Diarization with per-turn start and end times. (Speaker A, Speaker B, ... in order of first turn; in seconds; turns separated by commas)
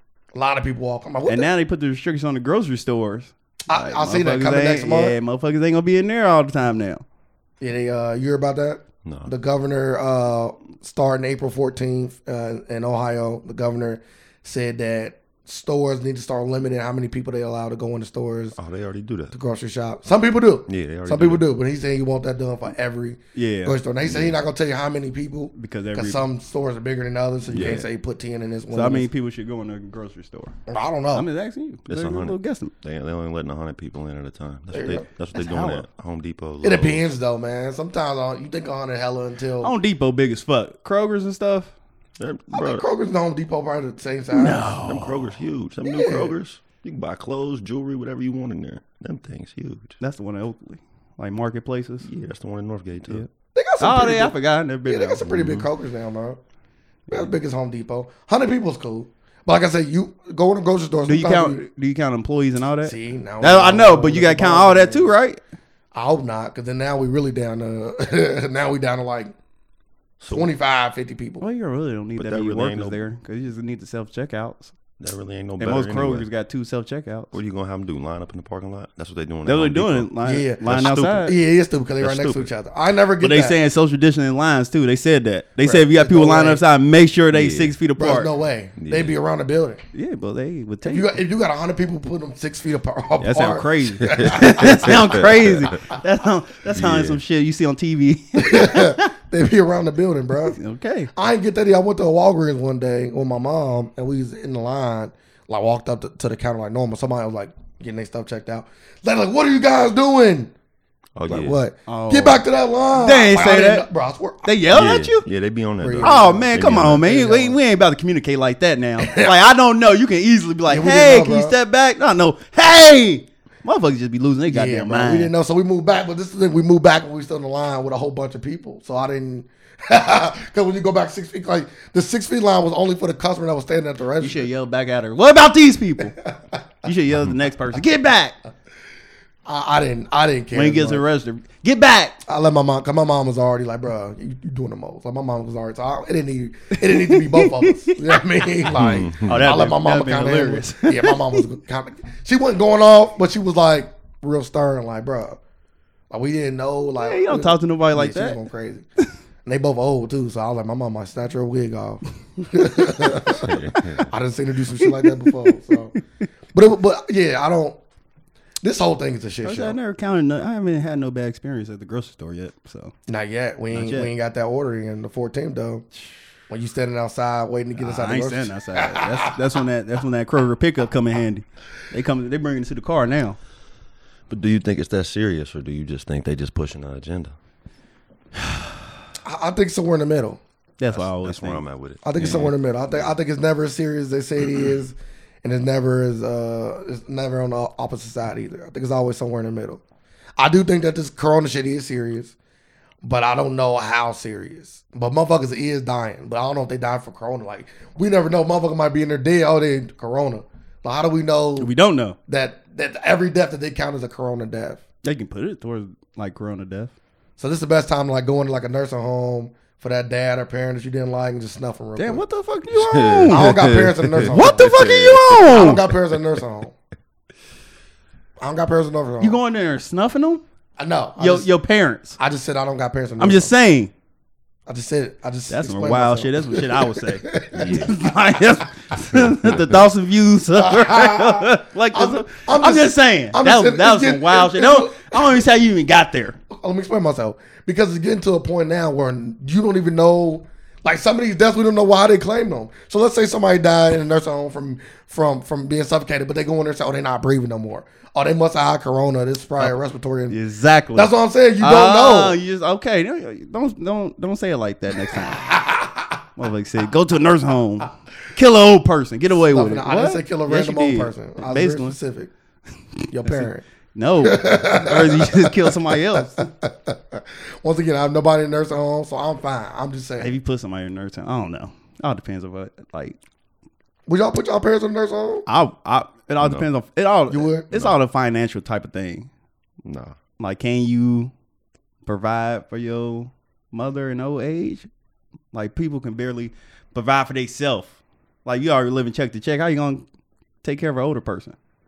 Speaker A: 0.3-1.5, Speaker B: 1.3-7.0, Speaker A: 3.7-5.2, Speaker A: 7.6-18.6, Speaker C: 9.0-9.3, Speaker C: 18.6-19.3, Speaker A: 19.3-29.1, Speaker C: 20.7-21.4, Speaker B: 23.3-23.8, Speaker C: 24.0-24.4, Speaker B: 25.5-26.2, Speaker C: 27.5-27.9, Speaker B: 28.7-30.5, Speaker A: 30.7-31.2, Speaker B: 31.1-32.7, Speaker C: 31.9-37.0, Speaker A: 34.7-35.0, Speaker B: 35.3-35.8, Speaker A: 36.6-39.7, Speaker B: 39.6-41.7, Speaker C: 42.2-42.8, Speaker A: 42.5-44.7, Speaker B: 44.3-45.3, Speaker C: 44.8-50.0, Speaker A: 45.8-46.4, Speaker B: 50.0-52.1, Speaker C: 52.0-53.2, Speaker A: 53.5-54.3, Speaker B: 53.8-55.7, Speaker A: 54.9-56.4, Speaker A: 57.1-61.6, Speaker B: 61.1-65.4, Speaker A: 62.8-65.1, Speaker A: 65.9-69.3, Speaker C: 70.2-70.5, Speaker A: 70.3-71.4, Speaker B: 71.4-74.7, Speaker C: 72.2-73.0, Speaker C: 75.0-76.3, Speaker B: 75.6-77.3, Speaker C: 77.3-80.1, Speaker B: 79.5-81.3, Speaker A: 80.2-80.6, Speaker C: 80.6-81.3, Speaker A: 81.2-83.6, Speaker C: 82.0-82.5, Speaker B: 83.2-88.3, Speaker A: 85.6-86.6, Speaker C: 87.3-87.7, Speaker A: 88.0-89.8, Speaker C: 88.8-89.2, Speaker B: 89.9-91.1, Speaker A: 90.8-95.2, Speaker B: 93.2-99.1, Speaker C: 94.1-95.8, Speaker C: 96.7-97.2, Speaker A: 98.3-100.6, Speaker B: 100.4-101.1, Speaker A: 101.1-110.5, Speaker C: 111.2-111.6, Speaker A: 111.3-114.6, Speaker B: 111.9-113.9, Speaker B: 114.4-115.2, Speaker C: 114.7-117.1, Speaker A: 115.8-117.6, Speaker B: 116.0-125.3, Speaker A: 119.0-119.3, Speaker A: 120.7-121.5, Speaker A: 124.5-134.5, Speaker B: 134.2-136.2, Speaker B: 136.8-138.3, Speaker A: 139.4-141.0, Speaker B: 140.5-142.2, Speaker A: 142.2-155.4, Speaker B: 146.9-148.2, Speaker C: 148.7-149.5, Speaker B: 149.2-151.4, Speaker A: 156.1-158.8, Speaker B: 157.0-158.4, Speaker A: 159.4-165.9, Speaker C: 163.3-164.1, Speaker B: 164.8-165.5, Speaker A: 166.5-167.8, Speaker A: 168.6-169.8, Speaker B: 169.4-172.9, Speaker A: 173.1-175.8, Speaker B: 173.7-174.1, Speaker A: 176.5-179.3, Speaker B: 177.8-183.4, Speaker C: 184.3-187.3, Speaker A: 189.2-190.4, Speaker B: 190.8-191.6, Speaker C: 190.9-193.1, Speaker A: 192.0-199.8, Speaker A: 200.4-202.3, Speaker A: 203.0-211.7, Speaker B: 211.6-212.2, Speaker A: 212.3-214.8, Speaker B: 215.0-216.9, Speaker A: 217.4-222.2, Speaker B: 221.9-223.5, Speaker C: 222.7-225.4, Speaker A: 223.3-226.7, Speaker B: 224.2-225.9, Speaker A: 228.4-229.4, Speaker B: 229.2-230.4, Speaker A: 230.8-231.5, Speaker B: 231.2-232.2, Speaker A: 232.2-233.5, Speaker B: 233.2-233.9, Speaker A: 234.7-237.9, Speaker B: 235.5-246.4, Speaker C: 237.5-237.9, Speaker C: 239.1-239.6, Speaker A: 240.6-245.4, Speaker A: 246.5-260.4, Speaker B: 260.3-265.5, Speaker A: 260.9-262.4, Speaker A: 265.3-266.1, Speaker B: 266.4-272.0, Speaker A: 269.5-272.3, Speaker A: 273.1-273.6, Speaker B: 273.2-276.5, Speaker A: 274.2-280.3, Speaker B: 280.2-283.2, Speaker A: 284.1-285.4, Speaker B: 285.4-289.3, Speaker C: 286.4-286.7, Speaker A: 287.3-287.7, Speaker C: 289.8-290.1, Speaker B: 290.4-291.3, Speaker B: 292.1-294.9, Speaker B: 295.5-300.0, Speaker B: 300.6-301.6